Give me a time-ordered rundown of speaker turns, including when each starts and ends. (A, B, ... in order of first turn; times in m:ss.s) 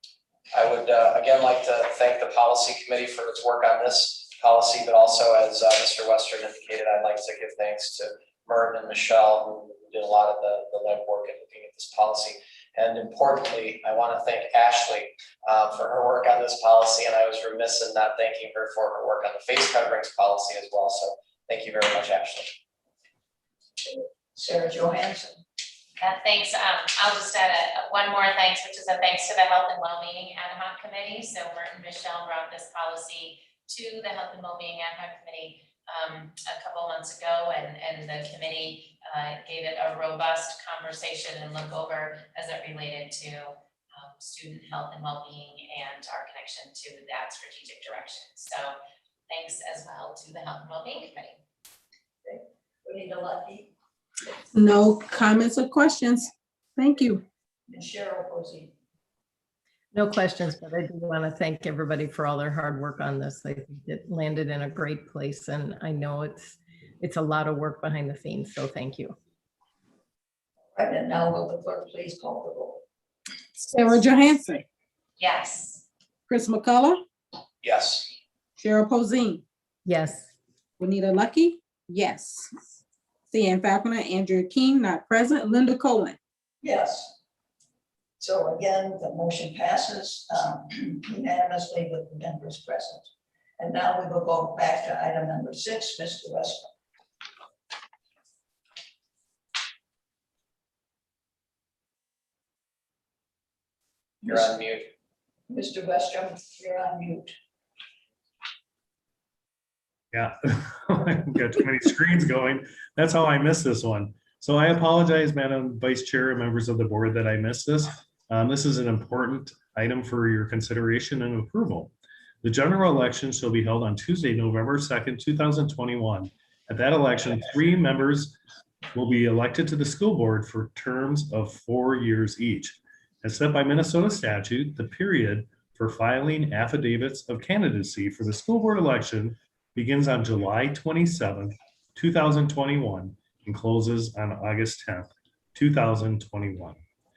0:00.5-0:22.6 A
0:23.9-0:25.4 B
0:26.0-0:48.7 C
0:49.3-0:51.4 C
0:52.2-0:53.7 B
0:54.5-0:57.2 D
0:57.7-0:58.7 B
0:59.9-1:09.2 E
1:10.7-1:12.8 B
1:13.6-1:14.6 D
1:15.2-1:15.8 C
1:16.3-1:17.0 D
1:17.6-1:18.1 A
1:18.6-1:19.4 D
1:19.8-1:20.3 E
1:20.8-1:22.6 D
1:23.3-1:26.2 D
1:26.6-1:27.1 B
1:28.2-1:36.7 B
1:44.2-1:44.9 A
1:45.5-1:47.3 B
1:50.1-2:08.4 F
2:08.9-2:26.8 F